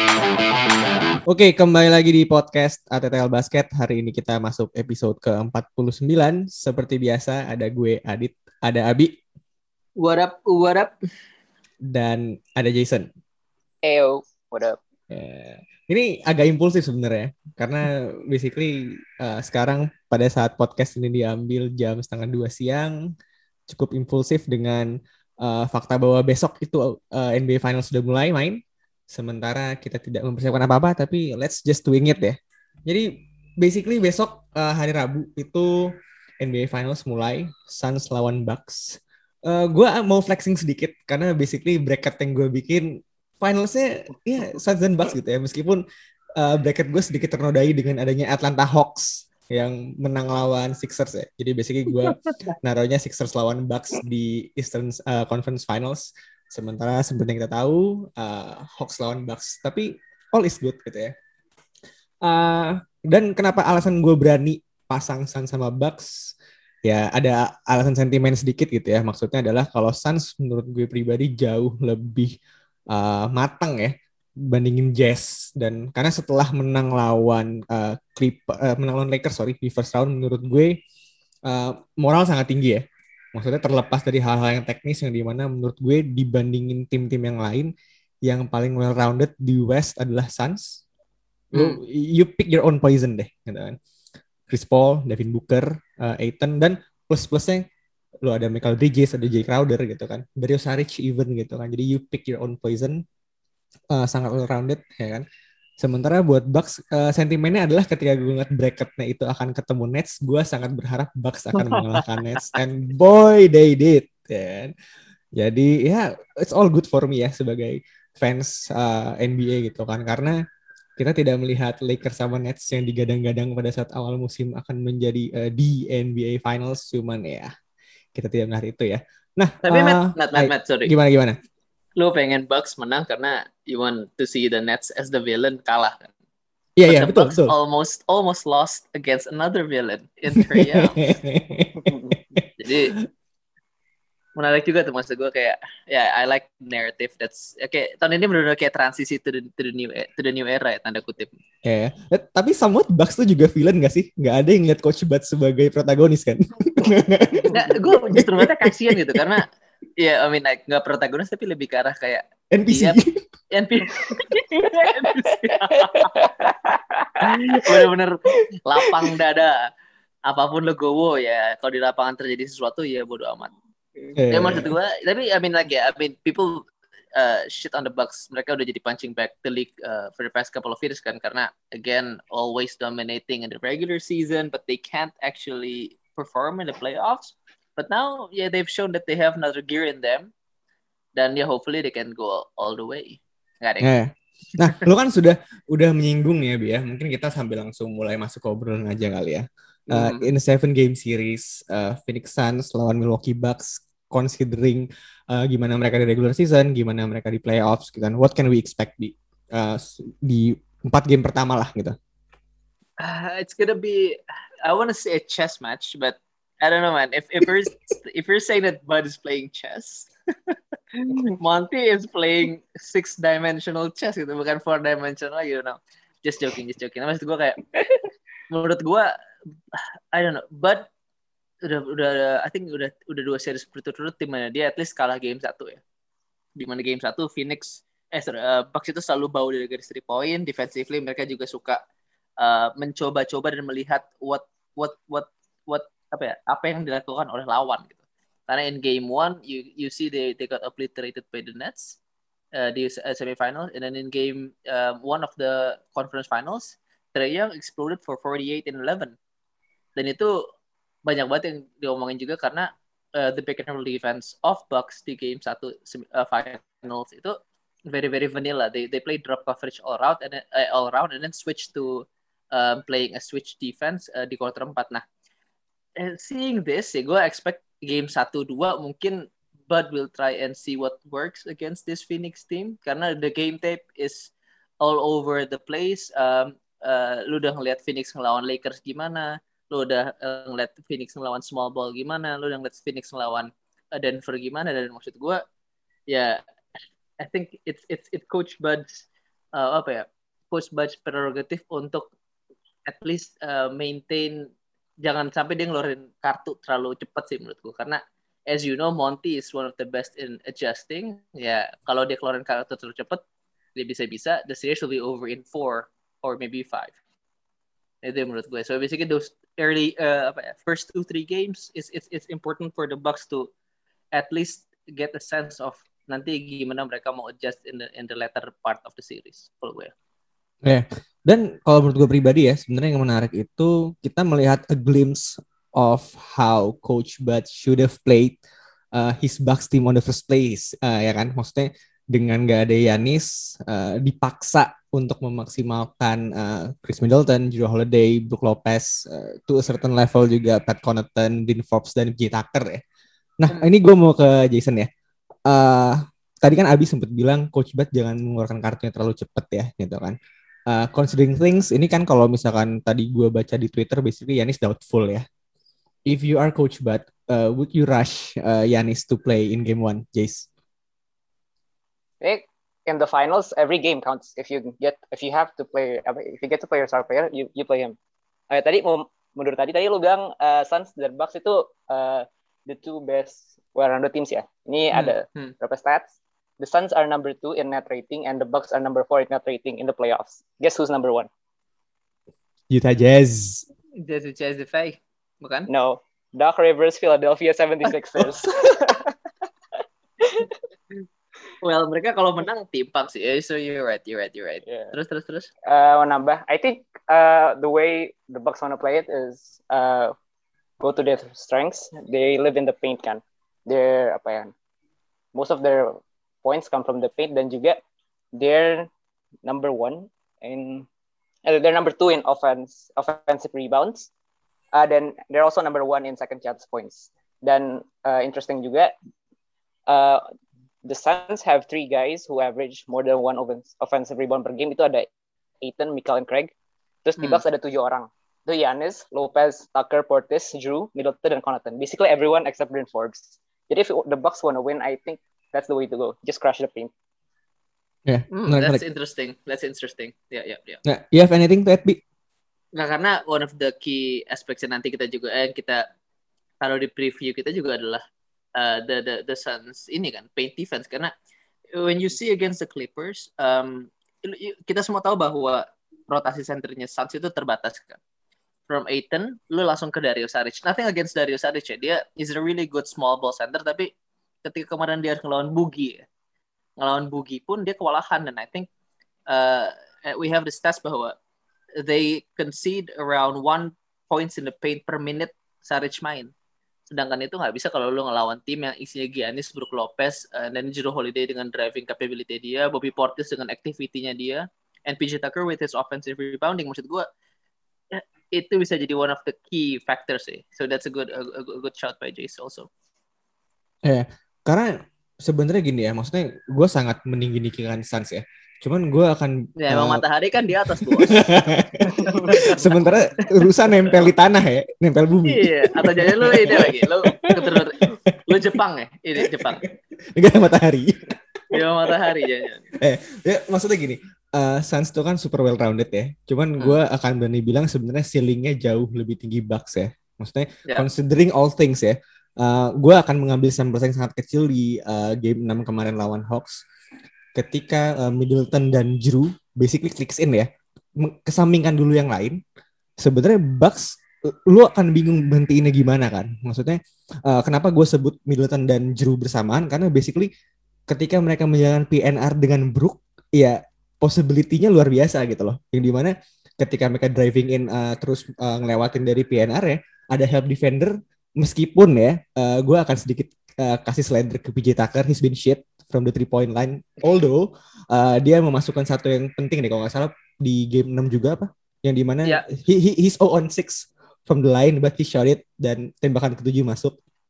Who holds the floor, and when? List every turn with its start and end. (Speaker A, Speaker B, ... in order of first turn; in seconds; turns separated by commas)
Speaker A: 1.3-9.2, Speaker B: 10.0-10.9, Speaker A: 11.9-13.1, Speaker C: 13.8-14.8, Speaker A: 15.1-23.0, Speaker A: 23.7-24.9, Speaker A: 25.4-45.8, Speaker A: 46.4-61.1, Speaker A: 62.2-66.3, Speaker A: 66.8-72.3, Speaker A: 72.9-80.8, Speaker A: 81.5-82.8, Speaker A: 83.3-87.7, Speaker A: 88.2-90.8, Speaker A: 91.5-93.8, Speaker B: 91.5-91.8, Speaker A: 94.5-97.7, Speaker A: 98.2-103.0, Speaker A: 103.9-105.2, Speaker A: 105.8-114.7, Speaker A: 115.4-120.4, Speaker A: 121.0-127.5, Speaker A: 128.2-131.4, Speaker B: 129.7-130.9, Speaker B: 132.0-136.1, Speaker A: 136.8-137.5, Speaker B: 136.9-141.0, Speaker A: 140.4-142.5, Speaker C: 141.9-142.2, Speaker B: 142.6-143.0, Speaker B: 144.4-151.3, Speaker A: 151.7-159.4, Speaker B: 157.5-159.5, Speaker B: 160.0-163.0, Speaker A: 162.5-163.3, Speaker B: 163.5-166.3, Speaker C: 165.9-167.1, Speaker B: 167.2-169.7, Speaker B: 170.3-173.5, Speaker A: 174.2-174.7, Speaker B: 174.3-190.3, Speaker B: 191.2-193.9, Speaker A: 193.8-212.0, Speaker B: 199.9-200.3, Speaker B: 213.0-227.7, Speaker B: 228.5-229.1, Speaker B: 229.7-230.9, Speaker B: 231.6-235.8, Speaker B: 236.6-241.8, Speaker B: 242.4-252.0, Speaker B: 252.5-259.2, Speaker B: 260.0-260.4, Speaker B: 261.0-267.4, Speaker B: 267.9-275.0, Speaker B: 276.0-295.4, Speaker B: 296.1-296.4, Speaker B: 297.2-299.0, Speaker B: 299.6-302.1, Speaker B: 302.9-304.5, Speaker B: 305.0-313.2, Speaker B: 313.8-317.0, Speaker B: 318.0-323.5, Speaker B: 324.1-329.9, Speaker A: 330.6-338.4, Speaker A: 338.9-352.8, Speaker A: 353.4-354.9, Speaker A: 355.5-360.2, Speaker A: 360.7-365.2, Speaker A: 366.1-370.5, Speaker C: 372.2-378.0, Speaker C: 378.5-391.3, Speaker B: 384.9-385.5, Speaker A: 392.7-393.6, Speaker B: 394.0-395.7, Speaker C: 395.7-399.1, Speaker A: 398.2-398.9, Speaker C: 400.2-400.5, Speaker B: 401.6-405.5, Speaker C: 404.7-404.9, Speaker C: 405.7-410.1, Speaker C: 410.8-414.5, Speaker C: 415.4-417.8, Speaker C: 418.4-418.9, Speaker C: 419.4-420.9, Speaker C: 421.4-424.1, Speaker C: 424.7-428.9, Speaker C: 429.9-430.2, Speaker C: 430.9-435.1, Speaker C: 435.6-436.5, Speaker C: 437.1-446.9, Speaker A: 448.1-448.8, Speaker B: 448.3-450.8, Speaker A: 450.9-452.0, Speaker B: 452.8-455.9, Speaker B: 456.6-458.0, Speaker B: 458.6-461.1, Speaker B: 461.8-468.0, Speaker B: 468.7-473.9, Speaker B: 474.4-476.0, Speaker B: 476.8-478.7, Speaker B: 479.3-481.1, Speaker B: 481.8-486.3, Speaker B: 486.9-497.1, Speaker B: 497.9-502.7, Speaker A: 503.8-510.0, Speaker B: 509.6-511.2, Speaker A: 510.7-518.6, Speaker B: 512.0-512.9, Speaker B: 515.3-519.7, Speaker A: 519.2-522.1, Speaker B: 521.5-522.7, Speaker A: 522.8-536.6, Speaker A: 537.4-542.4, Speaker A: 543.0-550.3, Speaker A: 550.9-577.0